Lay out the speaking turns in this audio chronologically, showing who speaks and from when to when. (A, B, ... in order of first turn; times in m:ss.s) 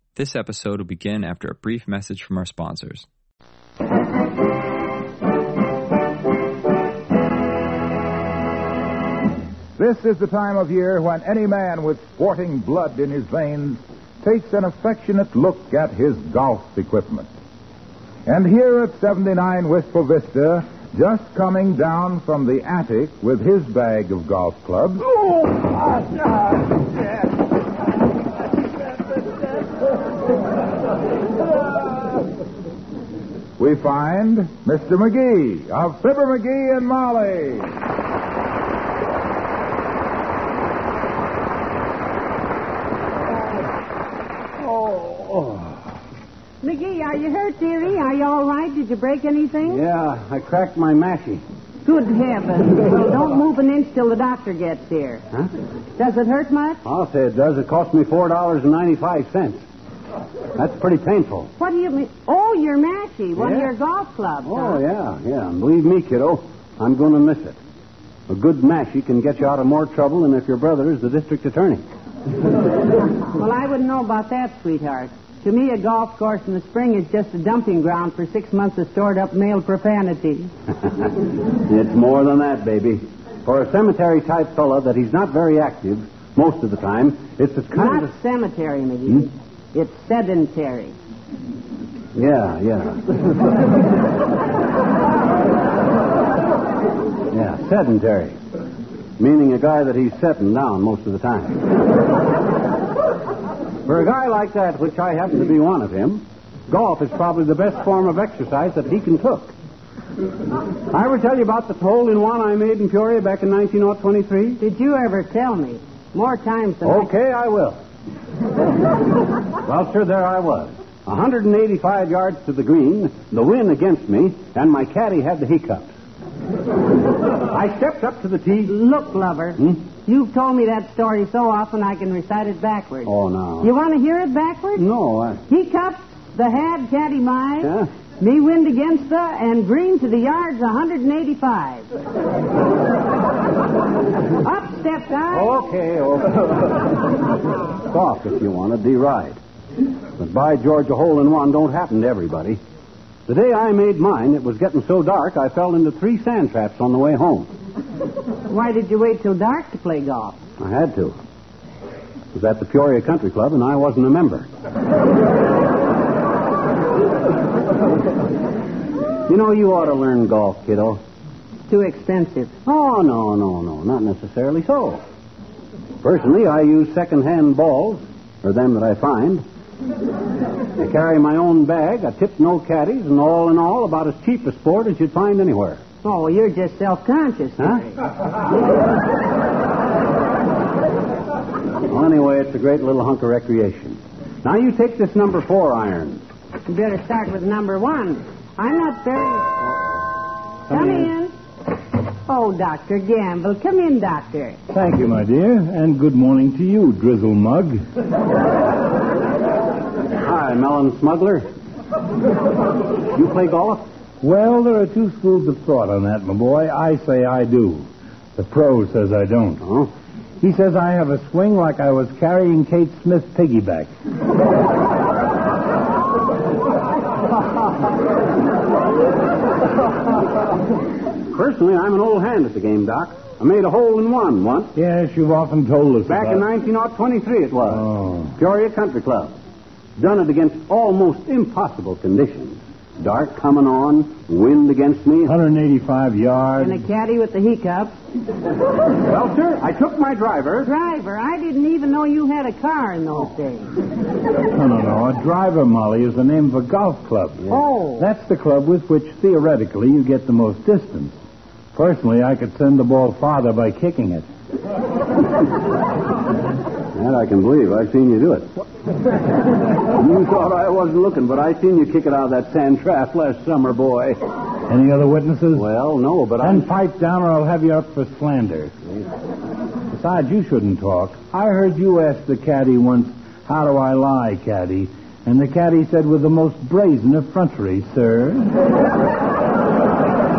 0:00.2-0:03.0 A
0:09.8-0:17.3 B
0:18.2-0:25.0 B
0:33.6-0:37.7 B
0:44.6-0:45.7 C
0:46.6-0:49.8 D
0:49.7-0:51.4 C
0:51.8-0:55.2 D
0:56.0-0:56.8 D
0:56.8-0:59.6 C
1:00.6-1:01.5 C
1:01.6-1:04.8 D
1:03.4-1:03.7 C
1:04.4-1:07.6 C
1:08.3-1:11.8 C
1:13.4-1:20.5 D
1:21.6-1:28.1 C
1:27.7-1:30.9 D
1:32.1-1:33.0 C
1:37.3-1:38.4 C
1:39.2-1:41.6 C
1:43.8-1:49.5 C
1:50.9-1:54.6 C
1:54.6-1:57.1 D
1:56.8-1:57.8 C
1:59.6-2:05.9 C
2:07.5-2:08.7 C
2:08.7-2:14.8 D
2:13.0-2:13.7 C
2:14.8-2:15.4 C
2:15.5-2:21.9 D
2:17.6-2:17.9 C
2:24.4-2:25.6 D
2:25.3-2:26.7 C
2:27.9-2:29.4 C
2:30.2-2:32.6 C
2:33.3-2:37.5 C
2:38.5-2:40.4 D
2:40.6-2:41.2 C
2:42.3-2:44.5 C
2:49.3-2:51.0 C
2:51.7-2:52.5 D
2:52.6-2:55.0 C
2:56.0-2:59.4 C
3:00.8-3:05.8 C
3:06.0-3:08.0 D
3:11.9-3:16.2 C
3:16.7-3:19.6 D
3:20.7-3:21.1 C
3:20.7-3:21.3 D
3:22.3-3:24.6 D
3:24.7-3:27.8 E
3:30.1-3:31.4 C
3:33.1-3:33.8 C
3:34.2-3:39.6 E
3:39.6-3:39.9 C
3:40.4-3:43.9 E
3:51.3-3:54.7 C
3:54.8-3:56.4 E
3:56.1-3:59.3 C
3:57.7-3:58.3 E
4:00.0-4:05.3 C
4:05.2-4:06.8 E
4:06.6-4:08.0 D
4:09.1-4:10.7 C
4:10.6-4:13.7 D
4:14.5-4:21.2 E
4:17.5-4:18.1 D
4:21.7-4:24.2 E
4:26.9-4:28.6 C
4:29.9-4:34.2 C
4:34.7-4:35.6 E
4:35.5-4:36.7 C
4:36.4-4:38.7 E
4:39.9-4:48.5 E